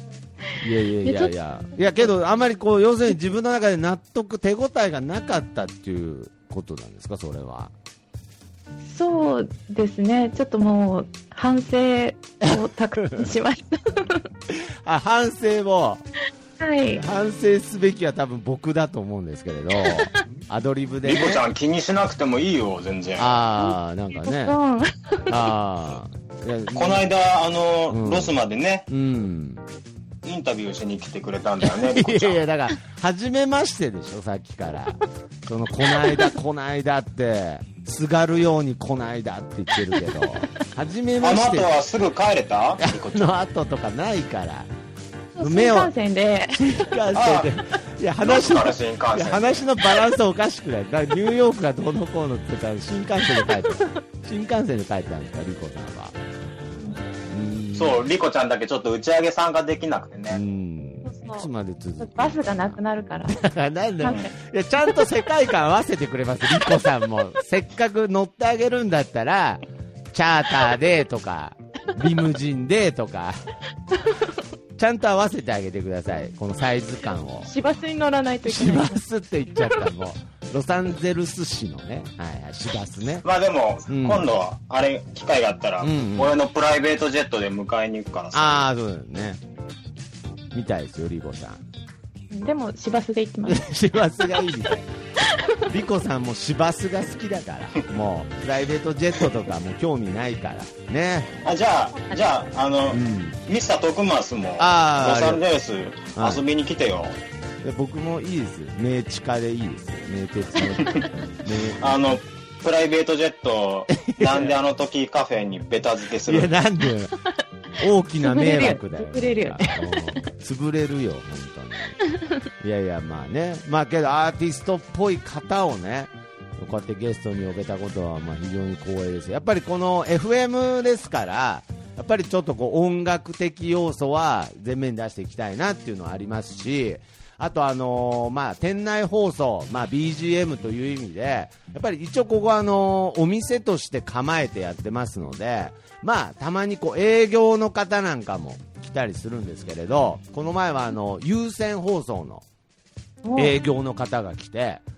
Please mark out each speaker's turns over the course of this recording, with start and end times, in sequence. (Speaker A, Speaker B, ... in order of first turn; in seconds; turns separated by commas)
Speaker A: 0.6-7.7, Speaker B: 1.0-1.3, Speaker B: 8.8-14.3, Speaker A: 12.4-13.3, Speaker A: 14.5-16.0, Speaker B: 16.6-17.0, Speaker A: 16.9-21.4, Speaker C: 21.0-23.4, Speaker A: 23.2-24.6, Speaker B: 23.6-25.3, Speaker A: 25.3-27.1, Speaker C: 26.7-28.9, Speaker A: 27.9-28.3, Speaker A: 28.9-29.6, Speaker C: 30.2-32.4, Speaker A: 31.6-41.7, Speaker B: 35.9-36.3, Speaker B: 40.0-40.5, Speaker C: 41.2-43.3, Speaker A: 42.8-44.7, Speaker B: 45.3-46.9, Speaker A: 45.4-45.9, Speaker A: 46.6-56.1, Speaker C: 47.1-47.5, Speaker C: 48.2-49.6, Speaker A: 57.3-58.0, Speaker C: 57.7-60.4, Speaker A: 60.3-73.4, Speaker B: 61.0-61.5, Speaker B: 62.0-63.4, Speaker B: 64.0-64.3, Speaker A: 74.8-77.5, Speaker B: 77.4-79.0, Speaker A: 78.4-83.2, Speaker C: 83.2-88.6, Speaker A: 83.9-84.2, Speaker A: 85.8-86.3, Speaker A: 88.3-89.4, Speaker A: 90.5-91.6, Speaker B: 92.3-93.7, Speaker A: 93.4-94.8, Speaker B: 95.2-95.7, Speaker A: 95.6-101.3, Speaker C: 101.4-107.2, Speaker A: 102.9-103.4, Speaker A: 104.6-105.4, Speaker A: 106.1-106.4, Speaker A: 107.6-111.8, Speaker C: 111.8-116.5, Speaker A: 114.0-114.5, Speaker A: 116.2-117.1, Speaker A: 117.8-122.0, Speaker B: 118.2-119.8, Speaker B: 122.0-122.3, Speaker A: 122.6-152.4, Speaker B: 153.2-153.5, Speaker A: 153.3-154.8